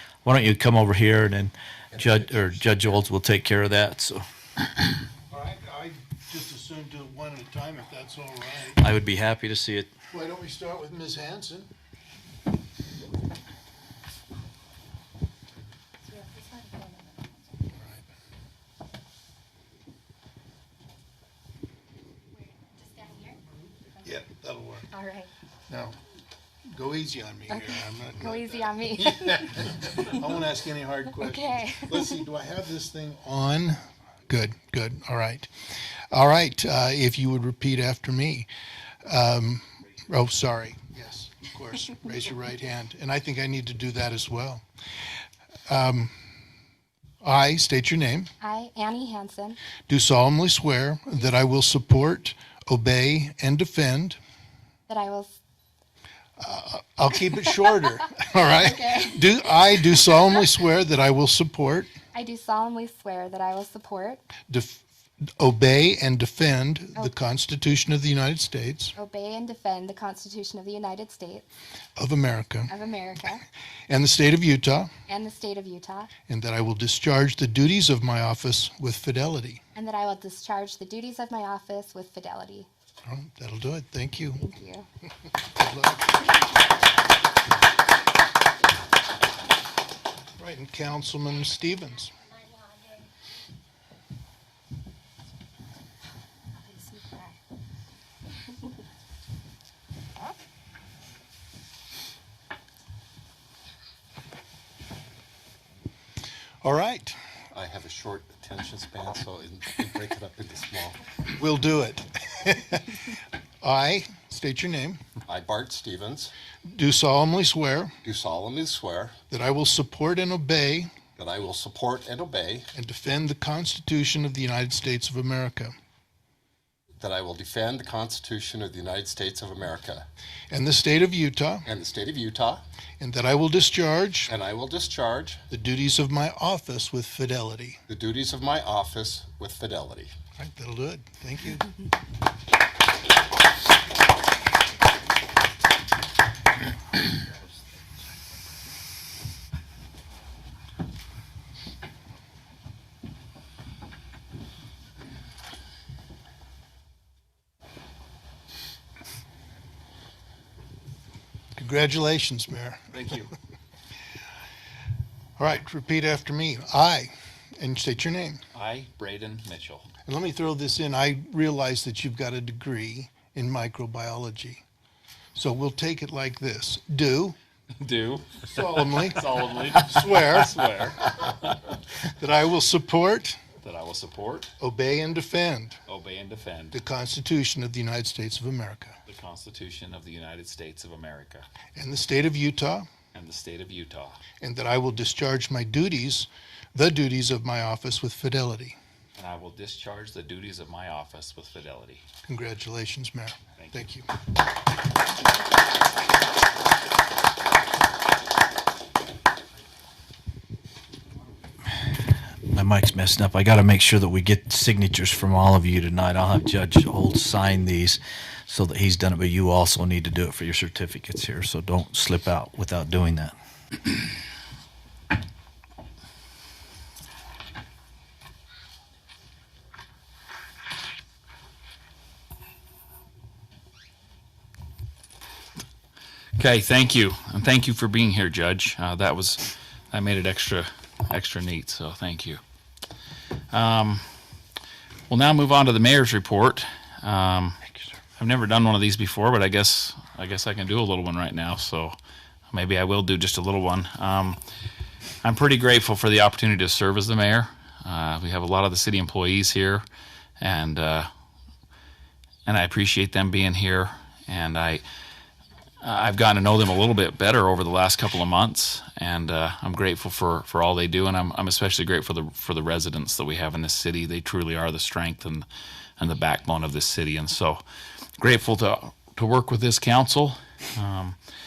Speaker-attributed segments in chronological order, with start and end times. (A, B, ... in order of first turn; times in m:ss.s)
0:00.2-0:04.2 A
0:01.9-0:02.6 B
0:05.3-0:08.8 C
0:08.8-0:09.9 A
0:10.1-0:11.7 C
0:16.1-0:17.4 D
0:17.8-0:18.0 C
0:22.8-0:23.4 D
0:24.0-0:24.9 C
0:24.9-0:25.3 D
0:25.7-0:26.0 C
0:26.7-0:35.5 C
0:27.5-0:29.5 D
0:31.2-0:32.2 D
0:36.1-0:38.5 C
0:39.1-0:44.6 C
0:45.7-0:46.1 C
0:47.2-0:48.3 C
0:48.4-0:49.6 D
0:49.9-0:54.2 C
0:54.9-0:55.4 D
0:56.4-1:01.9 C
0:58.6-0:59.2 D
1:02.1-1:04.4 D
1:04.5-1:04.8 C
1:05.4-1:08.9 C
1:09.0-1:11.5 D
1:12.0-1:12.7 C
1:12.7-1:13.4 D
1:13.9-1:14.9 C
1:15.1-1:16.1 D
1:16.3-1:19.6 C
1:19.8-1:22.7 D
1:23.0-1:24.4 C
1:24.4-1:24.9 D
1:25.6-1:26.2 C
1:30.4-1:32.1 C
1:36.7-1:37.4 D
1:46.6-1:47.2 C
1:47.5-1:51.0 B
1:51.4-1:55.0 C
1:55.3-1:56.3 B
1:56.7-1:58.0 C
1:58.0-1:59.2 B
1:59.3-2:00.9 C
2:01.2-2:02.7 B
2:02.7-2:05.7 C
2:07.0-2:10.1 B
2:10.5-2:11.7 C
2:11.7-2:12.6 B
2:13.0-2:14.3 C
2:14.3-2:15.4 B
2:15.5-2:17.8 C
2:17.9-2:20.1 B
2:20.4-2:21.7 C
2:41.6-2:43.0 C
2:42.9-2:43.3 E
2:45.4-2:48.4 C
2:48.5-2:49.9 E
2:50.1-2:54.6 C
2:55.4-2:57.4 C
2:57.8-3:01.8 E
2:58.5-3:00.6 C
3:02.2-3:03.4 C
3:03.6-3:04.5 E
3:04.6-3:05.8 C
3:05.9-3:06.8 E
3:06.7-3:09.0 C
3:09.1-3:11.5 E
3:11.8-3:12.9 C
3:13.1-3:14.2 E
3:14.4-3:18.8 C
3:19.2-3:22.0 E
3:22.2-3:24.1 C
3:23.6-3:23.9 E
3:32.5-3:43.3 A
3:56.4-4:02.4 E
4:03.5-4:04.0 E
4:05.1-4:07.6 E
4:08.2-4:12.0 E
4:12.5-4:14.4 E
4:15.2-4:19.8 E
4:20.4-4:21.1 E
4:22.5-4:24.8 E
4:25.8-4:35.5 E
4:36.0-4:37.6 E
4:38.2-4:41.2 E